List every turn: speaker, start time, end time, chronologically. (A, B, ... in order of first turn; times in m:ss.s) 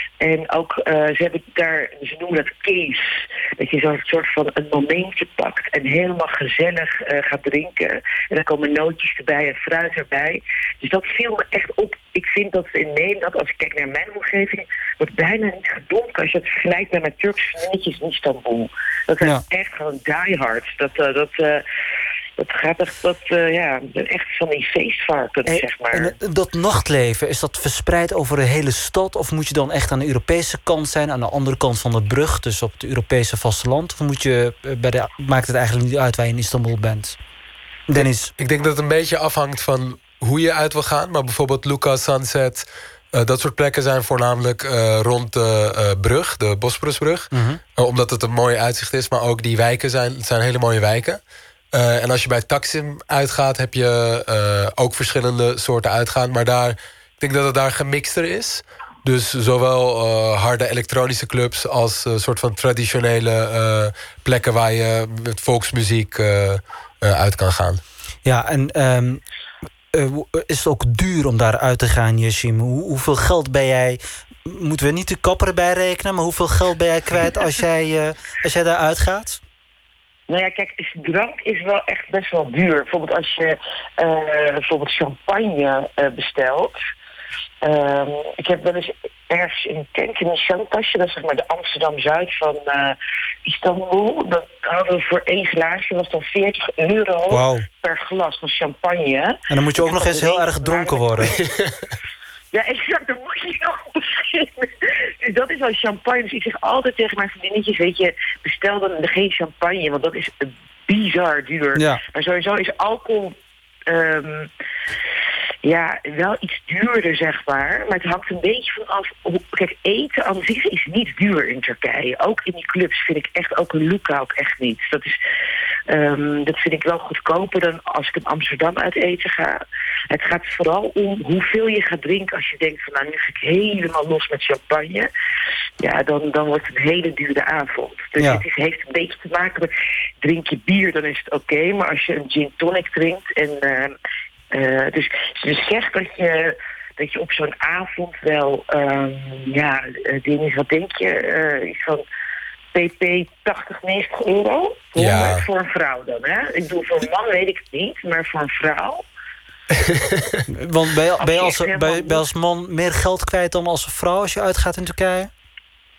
0:00.2-0:03.0 A
0:03.6-0:21.6 A
0:22.4-0:26.1 A
0:25.5-0:37.2 B
0:37.9-0:38.3 B
0:38.0-0:51.2 C
0:47.3-0:47.6 B
0:51.7-1:07.8 C
1:08.2-1:09.2 B
1:09.9-1:19.4 B
1:20.3-1:26.8 A
1:27.6-1:41.4 A
1:37.3-1:37.7 B
1:39.5-1:41.4 B
1:41.4-1:41.7 C
1:42.5-1:44.7 A
1:45.2-1:53.4 A
1:51.8-1:52.0 B
1:53.9-1:54.5 A
1:55.6-2:05.2 A
2:05.9-2:15.1 A
2:15.8-2:19.7 A
2:20.2-2:23.9 A
2:24.5-2:32.0 A
2:32.7-2:39.0 A
2:35.0-2:35.4 C
2:39.7-2:40.4 C
2:40.5-2:45.3 B
2:41.2-2:42.2 A